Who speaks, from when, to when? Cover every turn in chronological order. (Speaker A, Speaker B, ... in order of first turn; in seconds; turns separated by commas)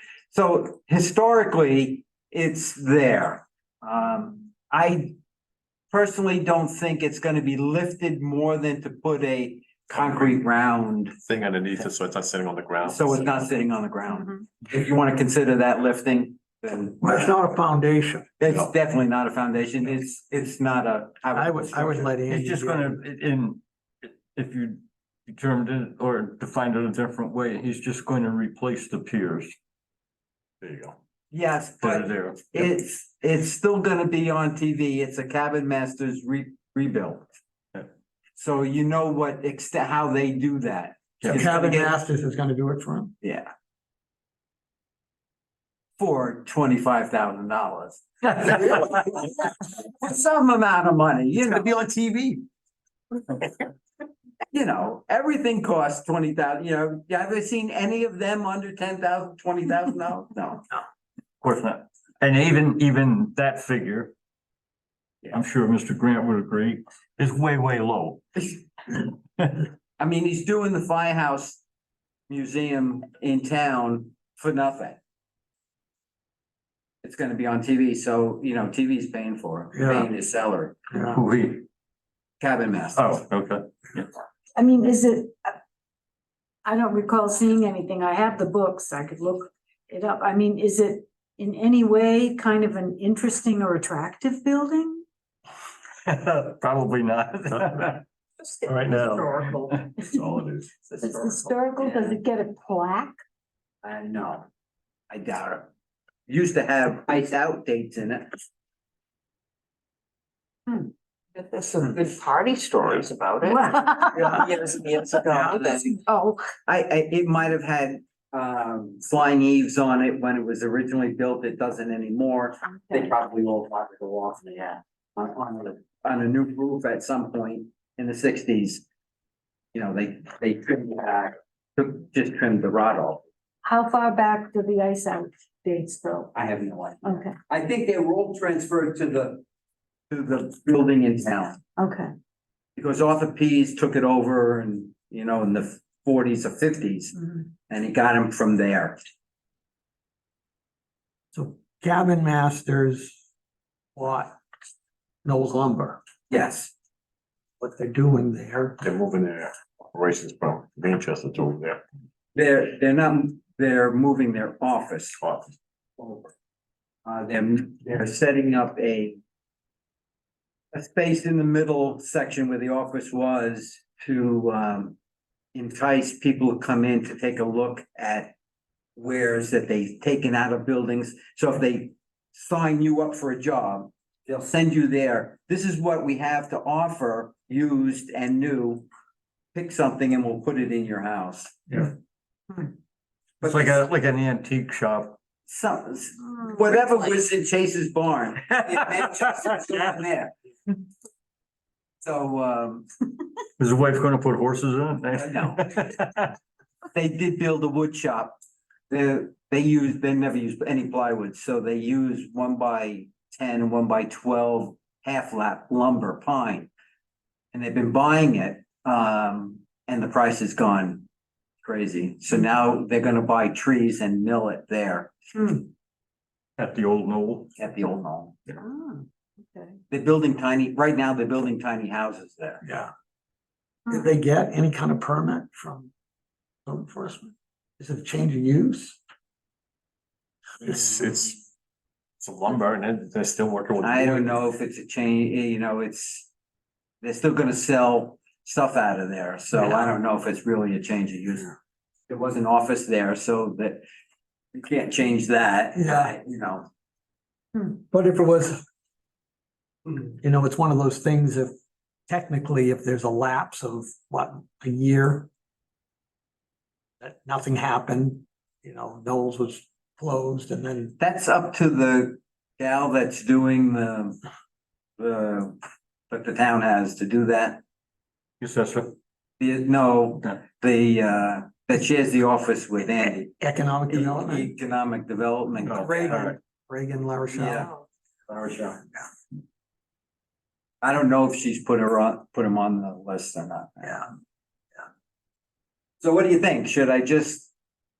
Speaker A: 0.3-5.1, Speaker A: 5.9-11.1, Speaker B: 11.2-13.6, Speaker A: 12.8-17.3, Speaker C: 17.0-18.3, Speaker A: 18.4-22.3, Speaker C: 21.3-23.0, Speaker D: 22.3-29.6, Speaker B: 30.6-30.9, Speaker A: 31.3-37.3, Speaker D: 31.8-32.7, Speaker A: 38.4-42.0, Speaker C: 41.2-43.1, Speaker A: 43.2-43.5, Speaker A: 46.0-51.7, Speaker C: 51.7-52.4, Speaker A: 54.5-60.7, Speaker D: 61.4-64.1, Speaker D: 65.3-68.2, Speaker D: 68.9-69.7, Speaker A: 70.0-71.6, Speaker A: 72.3-75.0, Speaker A: 77.0-80.8, Speaker C: 79.7-80.1, Speaker C: 80.9-81.2, Speaker D: 81.1-81.6, Speaker A: 82.4-83.1, Speaker D: 83.0-84.1, Speaker E: 84.5-85.5, Speaker E: 86.6-95.0, Speaker D: 96.0-98.0, Speaker D: 98.6-99.9, Speaker B: 100.1-100.7, Speaker E: 101.0-103.2, Speaker A: 101.8-102.2, Speaker A: 103.8-104.5, Speaker A: 105.1-105.7, Speaker A: 106.3-108.3, Speaker F: 111.3-116.3, Speaker E: 113.6-114.4, Speaker A: 115.3-115.8, Speaker A: 116.7-128.8, Speaker A: 129.7-133.2, Speaker E: 133.6-136.3, Speaker A: 136.3-139.4, Speaker E: 137.0-137.3, Speaker A: 140.1-141.6, Speaker E: 141.8-142.1, Speaker A: 142.8-149.0, Speaker C: 151.3-153.2, Speaker C: 153.9-154.4, Speaker C: 155.2-156.0, Speaker A: 156.3-156.7, Speaker C: 157.6-158.8, Speaker B: 158.8-161.8, Speaker A: 162.3-165.2, Speaker B: 165.2-165.4, Speaker A: 166.0-166.3, Speaker A: 167.1-169.2, Speaker A: 170.7-174.9, Speaker A: 175.5-178.3, Speaker A: 178.9-188.9, Speaker A: 189.5-191.9, Speaker A: 193.4-193.9, Speaker D: 193.4-195.2, Speaker A: 195.4-200.3, Speaker A: 202.0-202.8, Speaker D: 203.6-206.3, Speaker A: 205.1-205.7, Speaker A: 206.9-208.4, Speaker A: 208.9-216.7, Speaker A: 217.5-221.1, Speaker A: 221.6-225.7, Speaker D: 226.6-227.5, Speaker A: 227.6-228.4, Speaker E: 228.6-229.8, Speaker A: 229.9-232.6, Speaker C: 232.6-232.9, Speaker C: 233.9-235.9, Speaker C: 236.7-239.0, Speaker B: 240.6-241.4, Speaker B: 242.2-244.4, Speaker A: 243.8-246.3, Speaker A: 247.0-251.5, Speaker C: 249.6-249.9, Speaker A: 252.1-253.8, Speaker A: 254.5-256.7, Speaker C: 255.8-256.1, Speaker C: 257.6-258.6, Speaker C: 260.2-261.5, Speaker C: 262.1-265.3, Speaker C: 267.0-270.9, Speaker A: 271.0-274.2, Speaker A: 275.0-275.6, Speaker A: 276.1-277.6, Speaker D: 278.4-278.9, Speaker A: 279.4-283.3, Speaker C: 283.4-284.5, Speaker A: 283.9-286.3, Speaker D: 285.6-286.4, Speaker C: 285.6-287.7, Speaker A: 287.3-287.7, Speaker A: 288.3-288.8, Speaker A: 290.8-294.1, Speaker A: 296.0-297.5